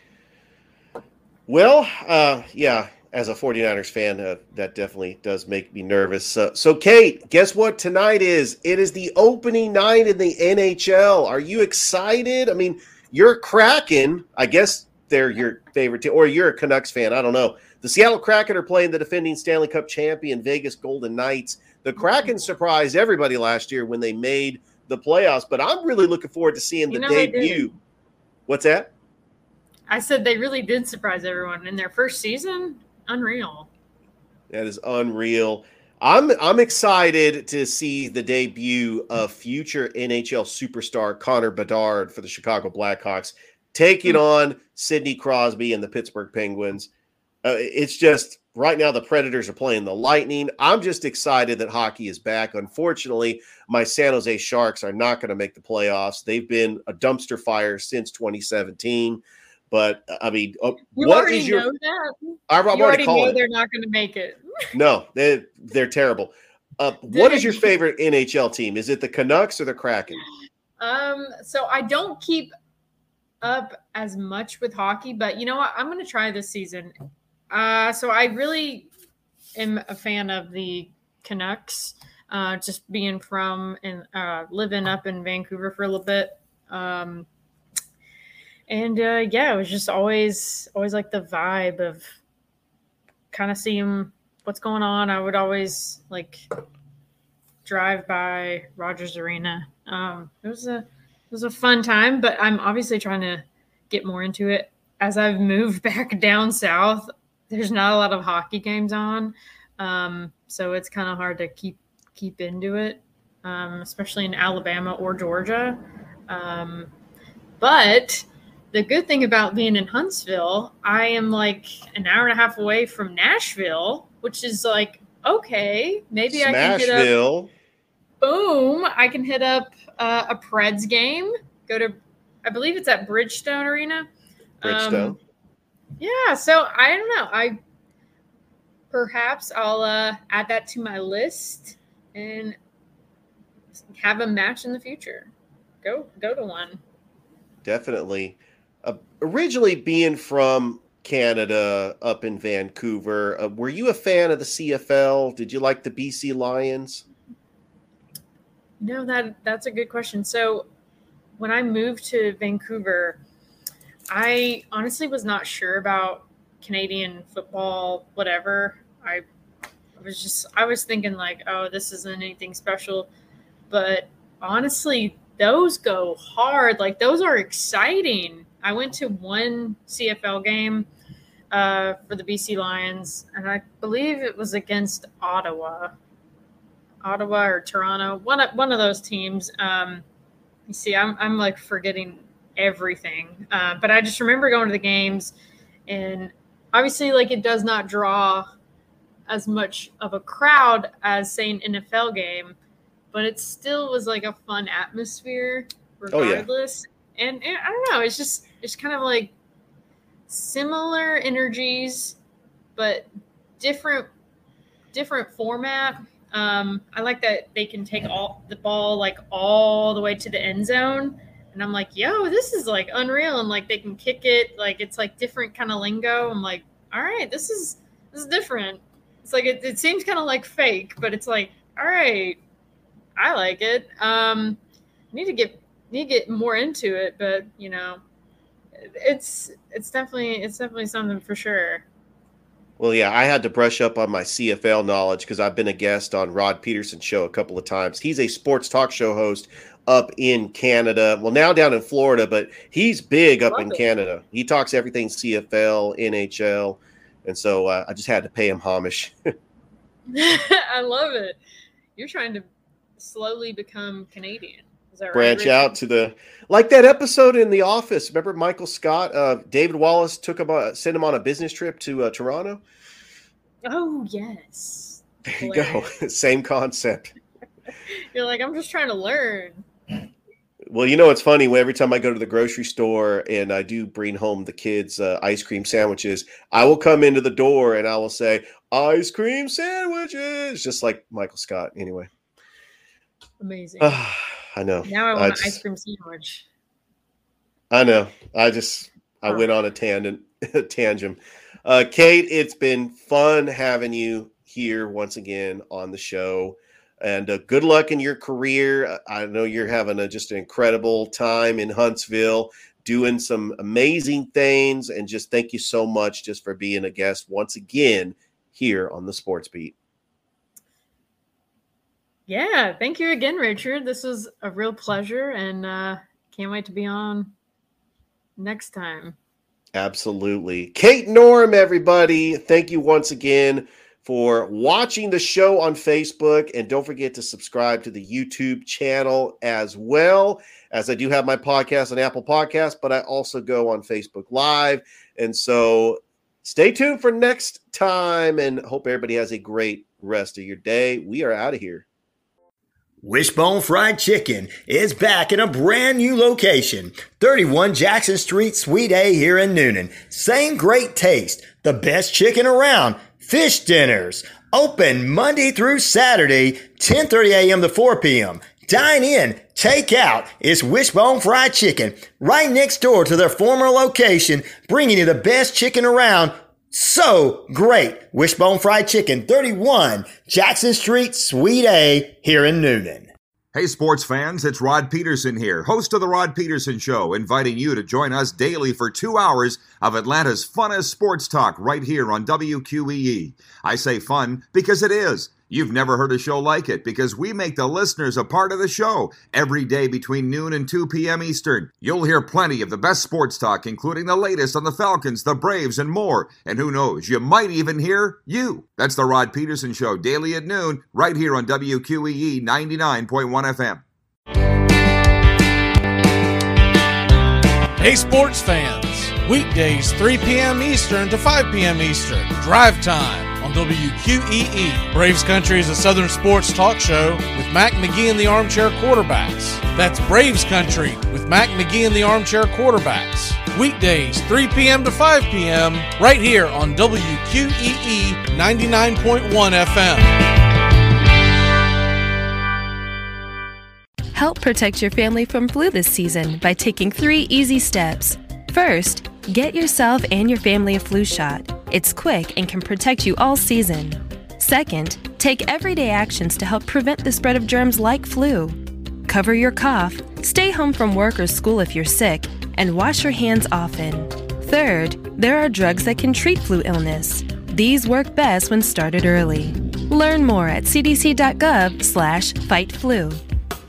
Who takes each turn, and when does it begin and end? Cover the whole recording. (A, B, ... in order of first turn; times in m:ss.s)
0:01.5-0:27.7 A
0:22.0-0:22.5 B
0:26.9-0:27.7 B
0:28.5-0:28.9 A
0:29.9-0:33.7 B
0:34.5-0:46.9 A
0:47.4-1:01.6 A
1:01.0-1:04.4 B
1:02.5-1:03.4 A
1:04.7-1:10.2 A
1:07.1-1:07.7 B
1:10.8-1:12.5 B
1:13.4-1:16.9 B
1:17.5-1:18.9 B
1:19.6-1:27.3 B
1:28.7-1:32.1 B
1:33.3-1:36.4 B
1:37.6-1:56.9 B
1:57.6-2:07.1 B
2:06.3-2:07.5 A
2:08.2-2:14.1 B
2:14.6-2:15.2 B
2:14.6-2:15.2 A
2:16.0-2:17.6 B
2:18.9-2:22.6 B
2:24.0-2:25.3 B
2:25.8-2:26.8 B
2:27.6-2:37.0 A
2:38.8-2:40.6 B
2:41.4-2:43.2 B
2:44.1-2:49.2 B
2:50.0-2:53.1 B
2:53.7-3:00.9 B
3:01.5-3:05.9 B
3:07.0-3:10.0 B
3:10.7-3:15.3 B
3:15.9-3:18.5 B
3:19.3-3:22.6 B
3:23.1-3:29.3 B
3:26.1-3:26.4 A
3:30.3-3:32.2 B
3:32.8-3:33.1 B
3:33.6-3:34.1 B
3:34.9-3:52.4 B
3:53.2-3:54.6 B
3:55.1-3:58.0 B
3:58.9-4:01.8 B
4:02.8-4:19.1 A
4:13.5-4:13.8 B
4:20.1-4:21.4 B
4:22.0-4:22.4 B
4:23.0-4:25.8 B
4:25.1-4:32.6 A
4:33.6-4:35.8 B
4:35.3-4:37.1 A
4:38.1-4:39.6 B
4:40.7-4:52.1 A
4:53.4-4:54.0 B
4:53.8-4:55.6 A
4:54.8-4:56.4 B
4:57.7-5:19.7 A
5:22.3-5:27.3 B
5:28.4-5:29.2 B
5:29.7-5:51.8 A
5:53.0-6:23.1 C
6:23.5-6:53.8 D
6:57.8-7:20.2 E
7:24.1-7:53.2 F